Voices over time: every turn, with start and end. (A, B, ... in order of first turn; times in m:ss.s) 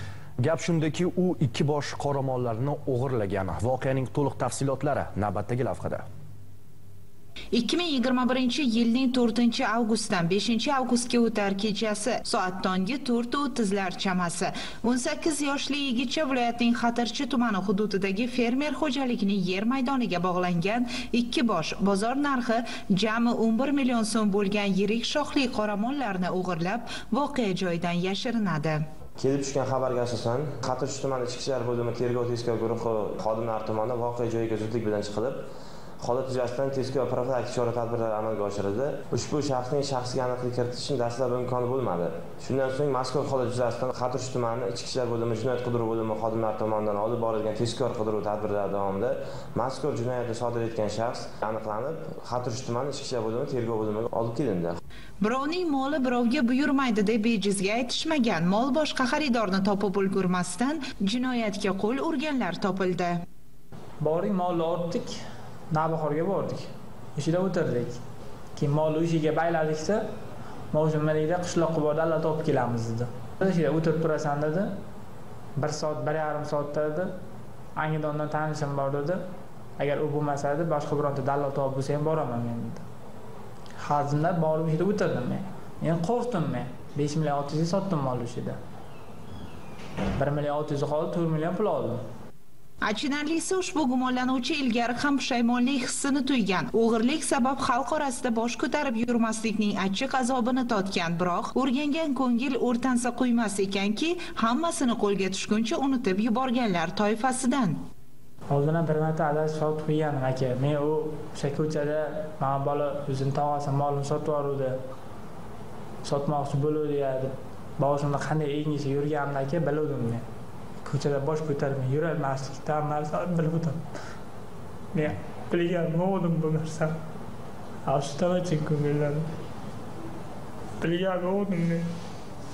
0:00.4-0:06.0 A
0:07.5-0:28.8 B
0:29.2-0:35.4 C
0:36.0-0:54.8 C
0:55.2-1:03.2 B
1:04.0-1:08.0 D
1:08.5-1:10.0 D
1:10.7-1:14.7 D
1:15.6-1:17.2 D
1:17.8-1:19.2 D
1:19.8-1:22.8 D
1:23.8-1:28.6 D
1:30.1-1:32.0 D
1:32.8-1:47.8 B
1:48.5-1:54.8 D
1:56.0-2:00.2 D
2:00.8-2:03.8 D
2:04.9-2:06.9 D
2:07.8-2:09.2 D
2:10.8-2:11.9 D